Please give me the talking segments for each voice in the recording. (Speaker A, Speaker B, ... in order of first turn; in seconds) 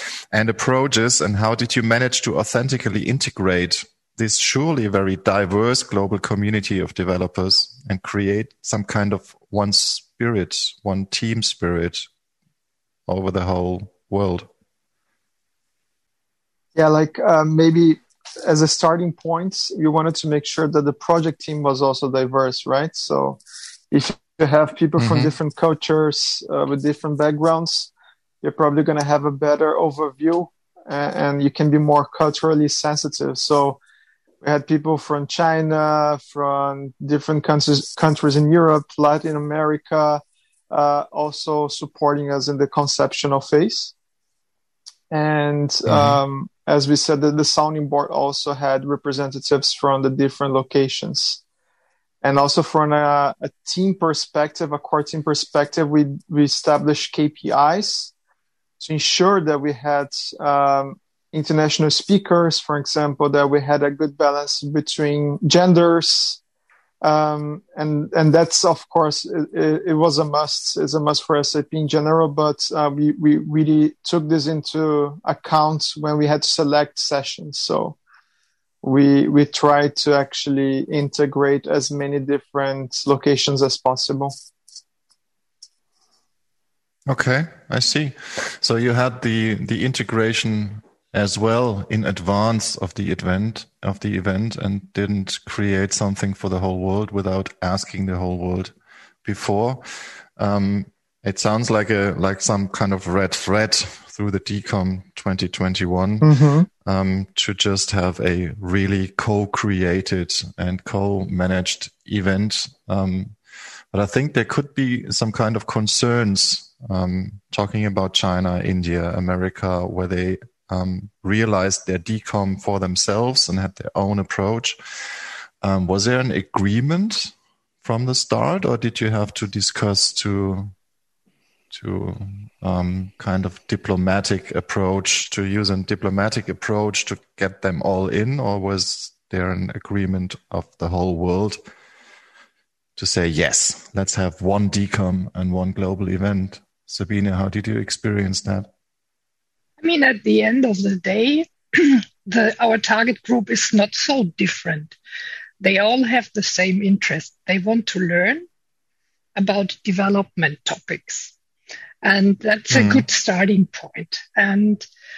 Speaker A: 0.3-12.1, 13.1-14.5, 25.0-25.3, 45.9-46.2, 87.1-98.7, 99.2-106.3, 106.8-113.3, 113.9-124.8, 125.6-130.7, 131.7-141.6, 143.0-148.7, 162.7-163.0
Speaker B: 16.7-27.9, 28.4-33.8, 34.4-43.9, 45.1-51.4, 52.2-58.1, 58.8-66.4, 67.0-78.0, 78.8-84.3, 106.2-106.7
Speaker C: 149.8-155.0, 155.6-158.4, 159.3-161.3, 162.0-164.8